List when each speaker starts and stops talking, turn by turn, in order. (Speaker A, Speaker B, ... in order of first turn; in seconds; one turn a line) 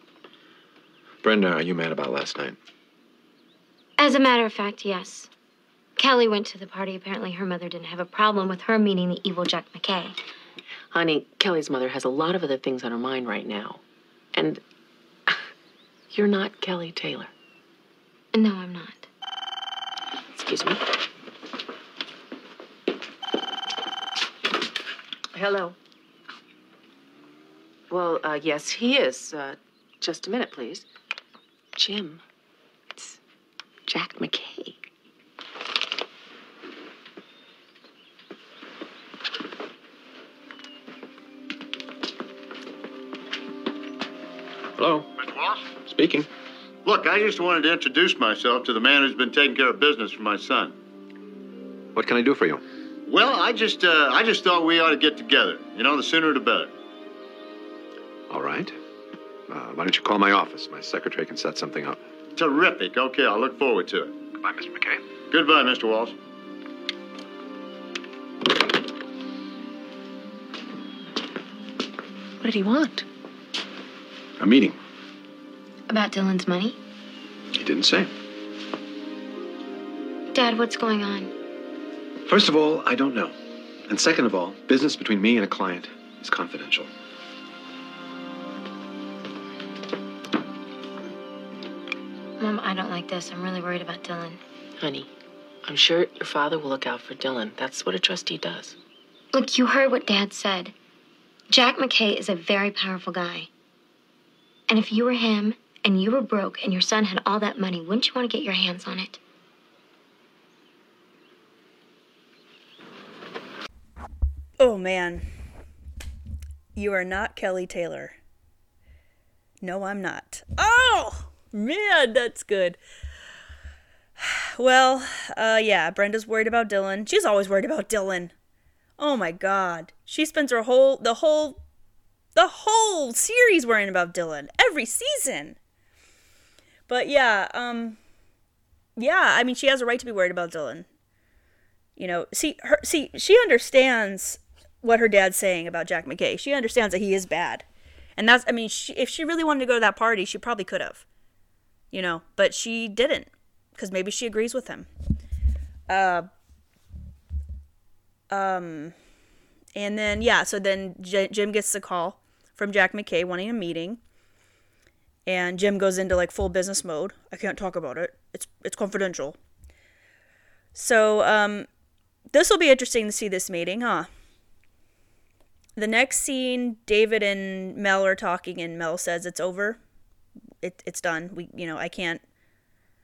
Speaker A: 1.2-2.5
Speaker B: 4.0-5.3
Speaker B: 6.0-10.2
Speaker C: 10.9-13.8
Speaker C: 14.3-14.6
Speaker C: 16.1-17.3
Speaker B: 18.3-19.1
Speaker C: 20.4-20.8
Speaker C: 25.3-25.7
Speaker C: 27.9-30.8
Speaker C: 31.8-32.2
Speaker C: 33.9-34.7
Speaker A: 44.8-45.1
Speaker D: 45.3-45.6
Speaker A: 45.9-46.3
Speaker D: 46.8-50.7
Speaker A: 51.9-52.6
Speaker D: 53.0-56.7
Speaker A: 58.3-58.7
Speaker A: 59.5-62.0
Speaker D: 62.4-64.2
Speaker A: 64.4-65.0
Speaker D: 65.3-66.2
Speaker C: 72.4-72.9
Speaker A: 74.4-74.8
Speaker B: 75.9-76.8
Speaker A: 77.5-78.1
Speaker B: 80.3-81.3
Speaker A: 82.3-83.3
Speaker A: 83.9-86.9
Speaker B: 92.4-94.4
Speaker C: 94.8-95.1
Speaker C: 95.6-98.8
Speaker B: 99.3-100.7
Speaker B: 101.5-103.5
Speaker B: 104.7-109.2
Speaker E: 114.6-115.3
Speaker E: 116.8-118.2
Speaker E: 119.6-122.8
Speaker E: 124.2-128.3
Speaker E: 129.0-131.6
Speaker E: 132.3-135.6
Speaker E: 136.9-138.0
Speaker E: 139.0-140.8
Speaker E: 142.0-147.6
Speaker E: 148.2-151.0
Speaker E: 151.9-154.9
Speaker E: 155.9-156.3
Speaker E: 158.3-158.9
Speaker E: 159.7-164.0
Speaker E: 165.2-169.3
Speaker E: 170.7-171.7
Speaker E: 172.3-174.1
Speaker E: 175.8-179.8
Speaker E: 180.6-182.2